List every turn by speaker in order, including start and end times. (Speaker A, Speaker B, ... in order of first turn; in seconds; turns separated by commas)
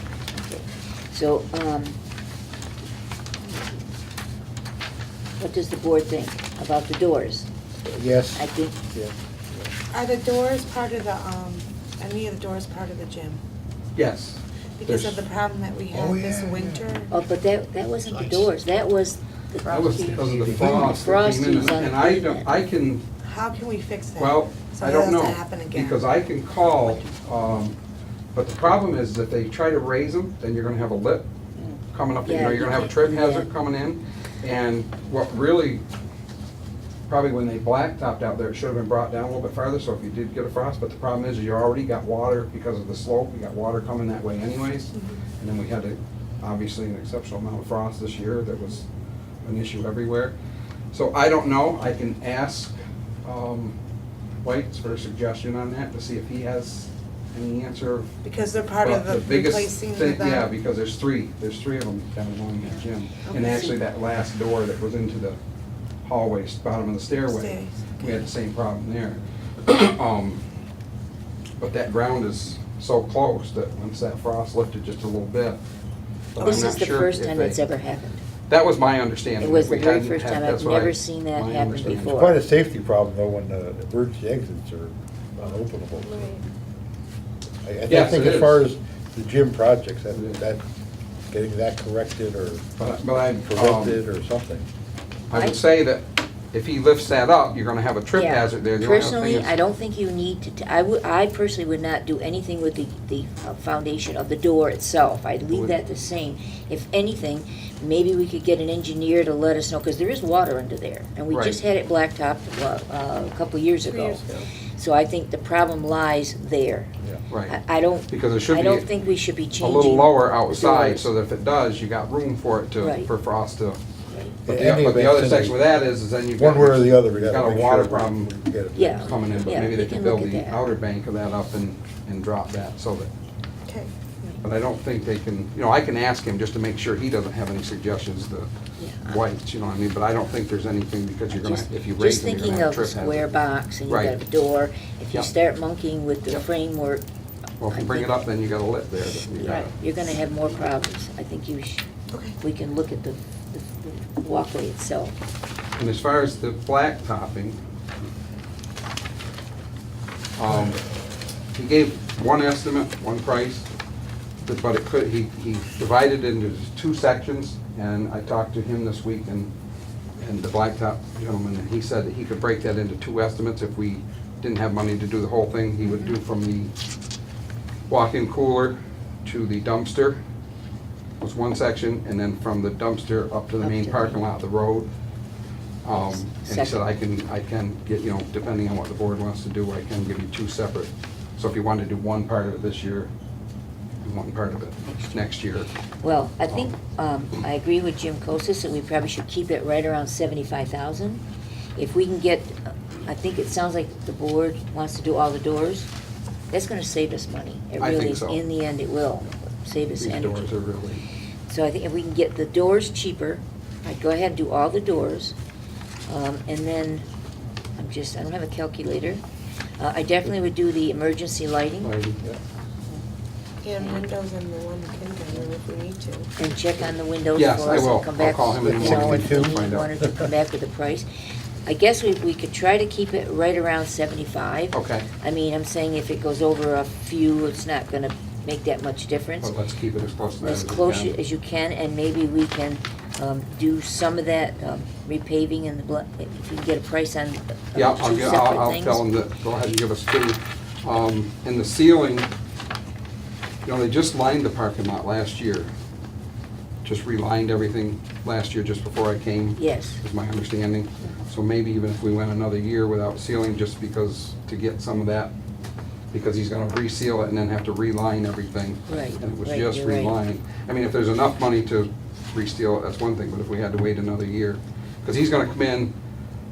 Speaker A: 0.4-1.9, Speaker A: 5.4-7.5, Speaker B: 7.8-9.7, Speaker A: 8.3-8.8, Speaker C: 9.9-13.4, Speaker D: 13.9-15.2, Speaker C: 14.8-17.1, Speaker B: 15.9-17.0, Speaker A: 17.1-22.6, Speaker B: 18.1-18.5, Speaker D: 19.7-23.0, Speaker B: 20.4-21.0, Speaker C: 23.2-26.1, Speaker D: 24.2-27.8, Speaker D: 28.3-31.3, Speaker A: 31.6-33.5, Speaker D: 31.9-35.8, Speaker D: 37.1-48.9, Speaker D: 49.4-50.3, Speaker D: 50.9-53.8, Speaker D: 54.4-58.1, Speaker C: 58.2-60.5, Speaker D: 58.8-65.4, Speaker C: 63.3-63.7, Speaker A: 63.3-63.7, Speaker D: 66.0-70.4, Speaker C: 67.2-68.3, Speaker D: 71.6-75.6, Speaker D: 76.3-77.6, Speaker A: 76.4-78.2, Speaker D: 78.5-82.1, Speaker A: 79.4-82.4, Speaker B: 81.8-86.3, Speaker B: 87.6-90.6, Speaker D: 87.9-88.6, Speaker D: 90.1-90.4, Speaker B: 91.3-92.7, Speaker D: 92.8-94.0, Speaker B: 93.5-94.7, Speaker D: 95.3-99.5, Speaker A: 95.3-95.6, Speaker A: 98.1-114.2, Speaker D: 105.5-105.7, Speaker D: 111.3-111.6, Speaker C: 113.8-114.5, Speaker A: 114.8-116.9, Speaker D: 117.3-117.6, Speaker A: 117.5-121.1, Speaker D: 118.1-118.9, Speaker D: 119.6-123.8, Speaker A: 122.8-123.1, Speaker A: 124.1-124.4, Speaker B: 124.5-125.6, Speaker D: 124.5-128.3, Speaker B: 126.3-129.7, Speaker A: 128.7-130.7, Speaker D: 128.9-133.1, Speaker C: 133.7-133.9, Speaker D: 134.4-138.5, Speaker A: 138.8-139.2, Speaker D: 139.0-143.3, Speaker A: 141.3-147.0, Speaker D: 143.9-144.2, Speaker D: 147.6-149.7, Speaker A: 147.7-148.2, Speaker A: 149.3-151.8, Speaker A: 152.4-155.1, Speaker D: 155.8-157.6, Speaker D: 160.3-160.8, Speaker D: 161.5-163.7, Speaker D: 164.4-169.5, Speaker D: 170.2-176.7, Speaker A: 175.8-176.1, Speaker D: 177.9-180.2, Speaker D: 181.2-184.9, Speaker A: 183.6-184.2, Speaker D: 185.8-193.1, Speaker A: 186.1-186.8, Speaker D: 194.0-195.7, Speaker A: 194.8-195.3, Speaker A: 196.0-201.2, Speaker A: 201.8-205.9, Speaker A: 206.5-210.6, Speaker D: 207.8-208.4, Speaker D: 209.9-211.0, Speaker A: 211.5-215.3, Speaker A: 216.1-217.0, Speaker A: 217.8-219.2, Speaker A: 219.8-221.9, Speaker D: 221.8-222.2, Speaker C: 223.6-226.3, Speaker A: 223.8-224.1, Speaker A: 226.4-231.1, Speaker D: 227.3-229.9, Speaker B: 228.6-230.3, Speaker A: 231.7-239.5, Speaker D: 234.7-235.1, Speaker D: 239.4-241.2, Speaker A: 240.4-249.1, Speaker D: 247.7-252.3, Speaker D: 253.6-255.7, Speaker D: 256.8-265.3, Speaker A: 259.6-260.0, Speaker D: 266.1-275.9, Speaker A: 268.9-270.1